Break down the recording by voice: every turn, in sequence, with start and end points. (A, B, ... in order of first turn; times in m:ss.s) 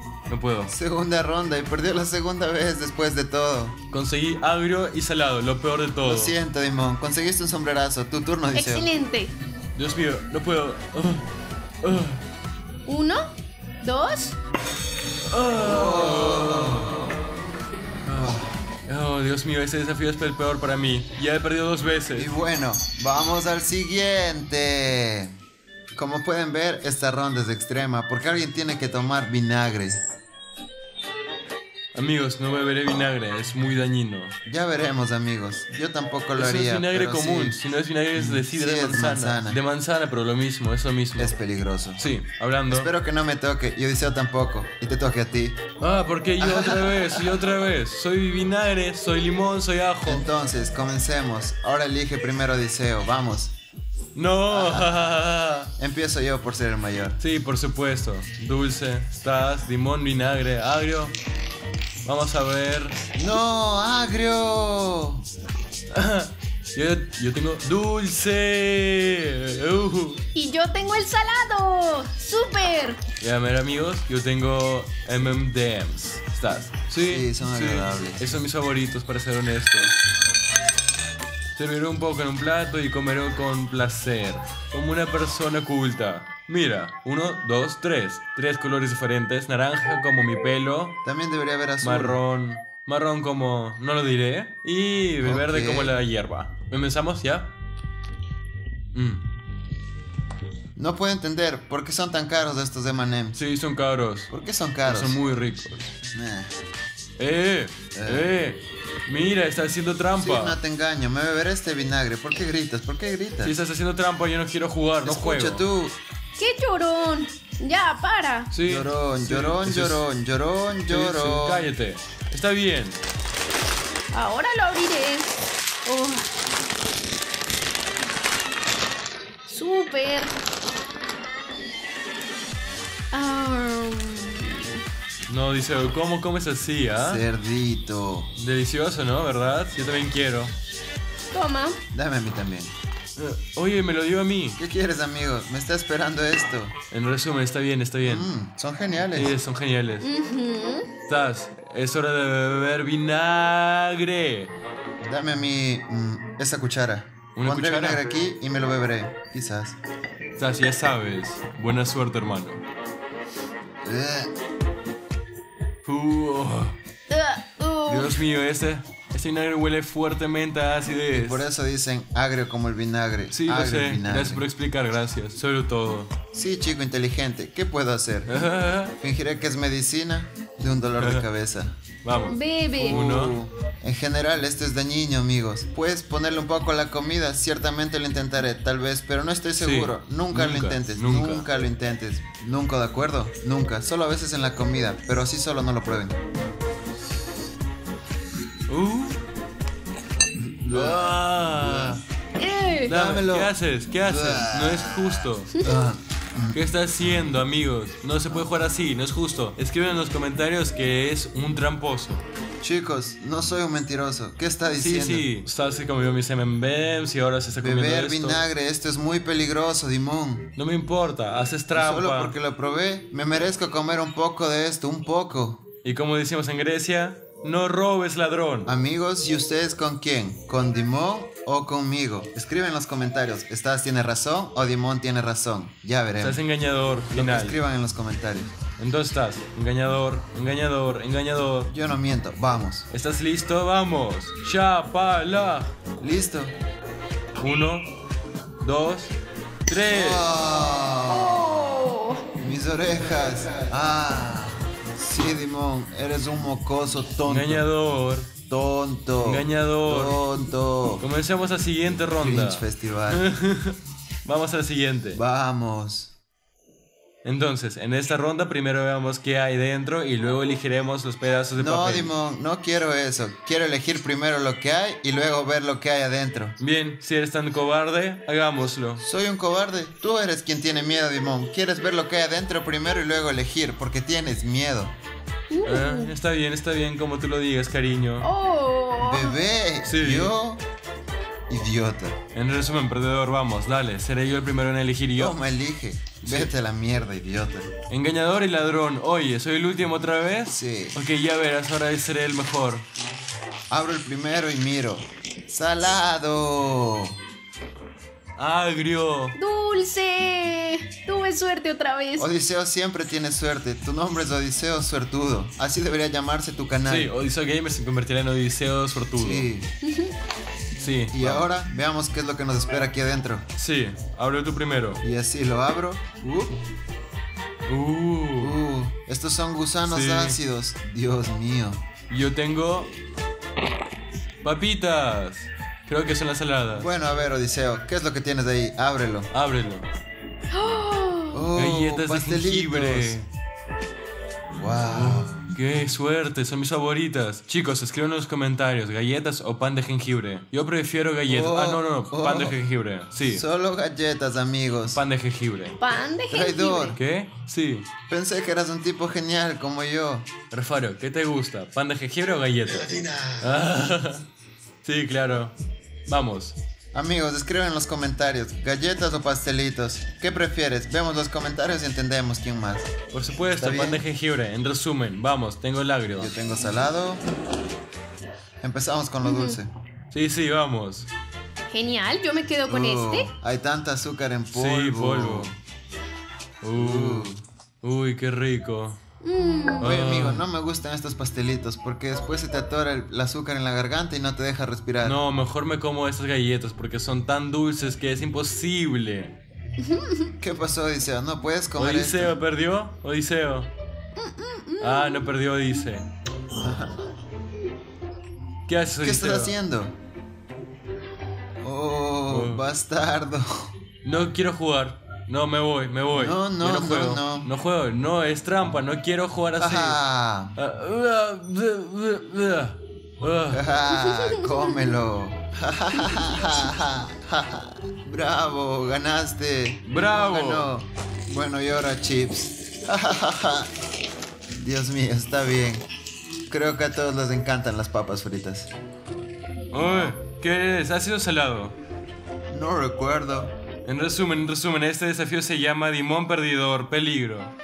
0:00.3-0:00.7 A
0:00.7-0:03.8 B
0:03.9-0:06.4 A
0:06.0-0:08.9 B
0:08.6-0:09.3 C
0:09.8-0:11.2 A
0:11.8-0:12.2 A
0:12.9-0:13.3 C
0:13.8-0:14.4 C
0:15.3-0:17.1 A
0:15.6-0:17.0 B
0:18.1-0:22.3 A
0:22.2-0:25.3 B
0:25.9-0:30.0 B
0:31.9-0:34.3 A
0:34.5-0:37.6 B
0:36.4-0:41.4 A
0:38.2-0:39.6 B
0:41.2-0:42.0 B
0:42.0-0:42.9 A
0:42.7-0:45.6 B
0:45.8-0:50.2 A
0:46.4-0:47.4 B
0:50.0-0:53.5 B
0:54.2-0:55.7 A
0:54.5-0:55.0 B
0:55.8-0:57.2 B
0:57.2-1:01.1 A
1:02.0-1:03.0 A
1:03.2-1:05.2 B
1:05.9-1:10.2 A
1:10.3-1:13.0 C
1:13.2-1:19.9 A
1:17.1-1:18.2 B
1:21.6-1:30.9 A
1:31.0-1:32.2 B
1:31.8-1:37.5 A
1:35.2-1:36.0 B
1:38.9-1:39.2 A
1:40.8-1:43.4 B
1:43.3-1:44.3 A
1:44.3-1:45.2 B
1:44.8-1:45.9 A
1:46.1-1:46.5 B
1:47.2-1:50.6 A
1:48.0-1:48.3 B
1:50.2-1:53.6 B
1:53.4-1:55.6 A
1:55.0-1:56.0 B
1:56.4-1:58.5 C
1:58.5-2:00.0 A
1:58.6-2:01.7 B
2:00.9-2:03.0 A
2:04.1-2:06.3 C
2:09.5-2:10.3 C
2:13.1-2:14.8 C
2:15.3-2:17.2 A
2:17.0-2:18.3 B
2:18.4-2:20.5 A
2:21.3-2:21.8 C
2:21.9-2:22.7 B
2:23.2-2:24.6 A
2:24.6-2:26.8 B
2:26.9-2:28.3 A
2:28.0-2:29.4 B
2:29.2-2:30.1 A
2:30.0-2:30.9 C
2:31.1-2:34.5 A
2:35.0-2:39.8 B
2:37.4-2:38.0 A
2:40.4-2:42.6 A
2:43.8-2:44.3 B
2:45.8-2:46.8 A
2:47.1-2:48.2 C
2:47.9-2:51.4 A
2:51.1-2:54.4 B
2:53.3-2:56.1 A
2:56.3-2:58.3 B
2:58.3-2:59.0 A
2:59.0-3:01.8 B
3:01.0-3:01.2 A
3:02.0-3:03.4 A
3:02.3-3:03.0 C
3:02.8-3:16.2 B
3:09.6-3:11.5 A
3:18.7-3:19.2 A
3:20.6-3:22.0 B
3:20.7-3:22.0 A
3:22.4-3:23.0 C
3:22.9-3:25.0 B
3:22.9-3:25.5 A
3:25.6-3:26.6 B
3:26.5-3:32.2 A
3:32.6-3:35.3 B
3:34.7-3:38.4 A
3:37.6-3:40.5 B
3:40.6-3:42.4 A
3:41.7-3:45.6 B
3:45.8-3:48.7 A
3:48.7-3:56.4 B
3:56.2-3:57.6 A
3:57.1-3:58.5 B
3:58.8-4:01.7 A
4:01.7-4:02.9 B
4:02.9-4:05.8 A
4:06.0-4:06.5 B
4:07.4-4:07.9 A
4:08.6-4:09.1 A
4:09.7-4:10.3 A
4:09.9-4:11.6 B
4:11.1-4:12.2 C
4:12.4-4:17.7 B
4:17.2-4:18.3 A
4:18.5-4:21.0 B
4:19.2-4:20.2 A
4:21.0-4:25.2 A
4:22.2-4:23.3 B
4:25.1-4:26.1 B
4:27.2-4:32.1 A
4:31.6-4:36.6 B
4:36.6-4:39.0 A
4:39.0-4:44.9 B
4:45.5-4:46.1 C
4:45.7-4:48.3 A
4:48.2-4:49.4 C
4:49.0-4:50.6 B
4:49.8-4:50.3 A
4:51.5-4:52.2 B
4:52.3-4:55.4 A
4:55.2-4:57.7 B
4:56.2-4:56.5 A
4:57.9-5:02.9 A
5:00.5-5:01.0 B
5:03.7-5:07.2 B
5:08.4-5:09.4 A
5:09.4-5:12.3 C
5:12.2-5:17.1 B
5:16.8-5:19.5 A
5:19.2-5:19.7 B
5:19.8-5:20.2 C
5:20.8-5:21.5 A
5:21.1-5:23.4 B
5:23.6-5:25.0 A
5:25.0-5:26.6 B
5:27.7-5:28.6 A
5:28.4-5:31.8 B
5:29.8-5:30.4 A
5:32.1-5:32.9 A
5:34.4-5:36.9 A
5:36.7-5:39.3 B
5:39.3-5:39.8 A
5:40.5-5:41.5 C
5:41.3-5:43.2 B
5:41.6-5:43.3 A
5:44.6-5:45.4 B
5:44.9-5:53.4 A
5:51.3-5:52.6 B
5:53.3-5:55.0 B
5:54.9-5:55.8 A
5:55.8-5:57.0 C
5:56.3-5:57.0 B
5:57.0-5:57.9 A
5:58.1-6:00.3 B
6:00.5-6:02.9 A
6:02.8-6:03.7 B
6:03.4-6:04.2 A
6:04.8-6:05.5 A
6:06.1-6:06.6 A
6:06.9-6:12.9 B
6:13.1-6:16.3 A
6:13.6-6:14.0 B
6:16.2-6:17.2 B
6:18.6-6:19.7 B
6:19.2-6:19.6 C
6:20.1-6:21.1 A
6:21.7-6:23.3 C
6:22.7-6:25.6 B
6:24.5-6:25.5 A
6:26.6-6:29.0 A
6:26.8-6:27.4 B
6:29.2-6:29.9 C
6:29.8-6:30.4 A
6:29.8-6:35.2 B
6:35.0-6:39.3 A
6:39.8-6:40.3 C
6:40.4-6:42.4 B
6:41.8-6:43.7 A
6:44.2-6:45.3 C
6:44.8-6:46.0 A
6:46.6-6:47.0 B
6:48.7-6:49.6 A
6:49.0-6:50.0 B
6:51.6-6:53.7 B
6:52.3-6:52.6 A
6:54.0-7:00.0 A
6:56.1-6:57.5 B
6:59.6-7:00.6 B
7:00.6-7:03.6 A
7:03.5-7:13.7 B
7:04.0-7:04.8 C
7:09.8-7:10.7 A
7:14.6-7:15.8 B
7:16.5-7:18.7 B
7:19.7-7:21.8 A
7:22.5-7:23.5 B
7:23.8-7:27.5 A